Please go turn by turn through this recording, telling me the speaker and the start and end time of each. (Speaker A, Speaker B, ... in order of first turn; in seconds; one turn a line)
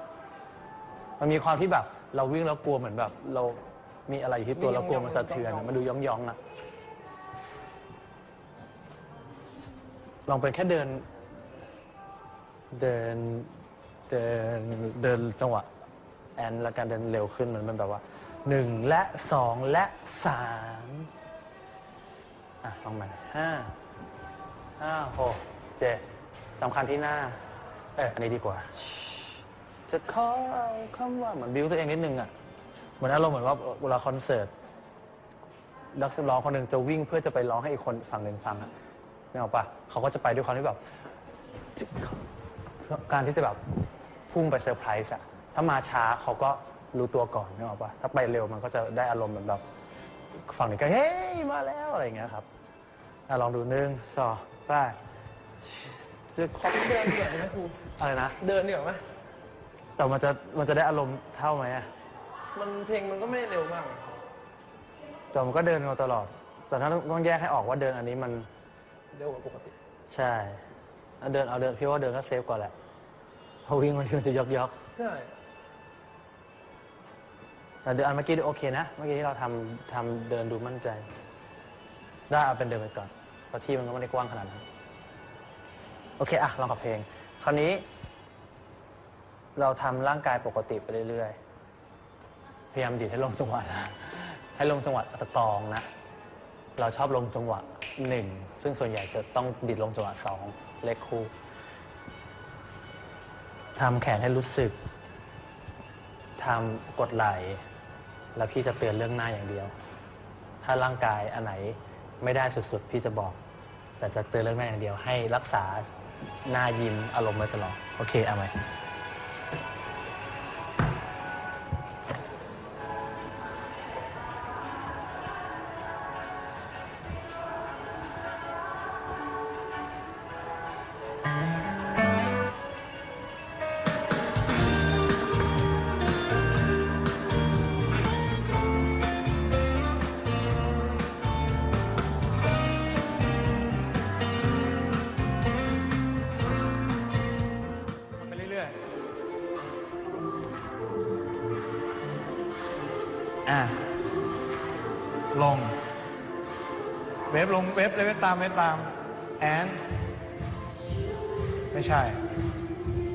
Speaker A: 1.2-6.4
Speaker B: 4.5-5.9
Speaker A: 10.3-11.1
Speaker A: 12.7-13.5
Speaker A: 14.1-15.7
Speaker A: 16.4-21.1
Speaker A: 22.6-23.7
Speaker A: 24.8-26.0
Speaker A: 26.6-27.4
Speaker A: 28.0-32.3
Speaker A: 33.0-34.5
Speaker A: 36.0-38.7
Speaker A: 39.3-40.8
Speaker A: 41.8-42.2
Speaker A: 42.9-43.6
Speaker A: 44.3-49.6
Speaker A: 50.5-52.5
Speaker A: 53.3-55.0
Speaker A: 55.6-57.2
Speaker B: 56.6-57.8
Speaker A: 58.0-58.4
Speaker B: 58.4-59.0
Speaker A: 60.0-61.9
Speaker B: 62.5-64.2
Speaker A: 65.3-68.5
Speaker B: 69.1-69.8
Speaker A: 70.1-70.6
Speaker A: 71.2-72.7
Speaker A: 73.7-74.8
Speaker B: 75.0-75.3
Speaker A: 77.8-81.1
Speaker A: 82.3-84.6
Speaker A: 86.2-87.9
Speaker A: 89.6-91.4
Speaker A: 92.7-95.9
Speaker A: 96.8-101.3
Speaker A: 103.8-104.8
Speaker A: 106.4-107.6
Speaker A: 108.3-109.7
Speaker A: 110.6-113.4
Speaker A: 114.0-115.9
Speaker A: 116.5-118.5
Speaker C: 148.2-148.8
Speaker C: 153.5-153.8
Speaker C: 155.3-155.8
Speaker C: 157.3-159.8
Speaker C: 161.7-162.2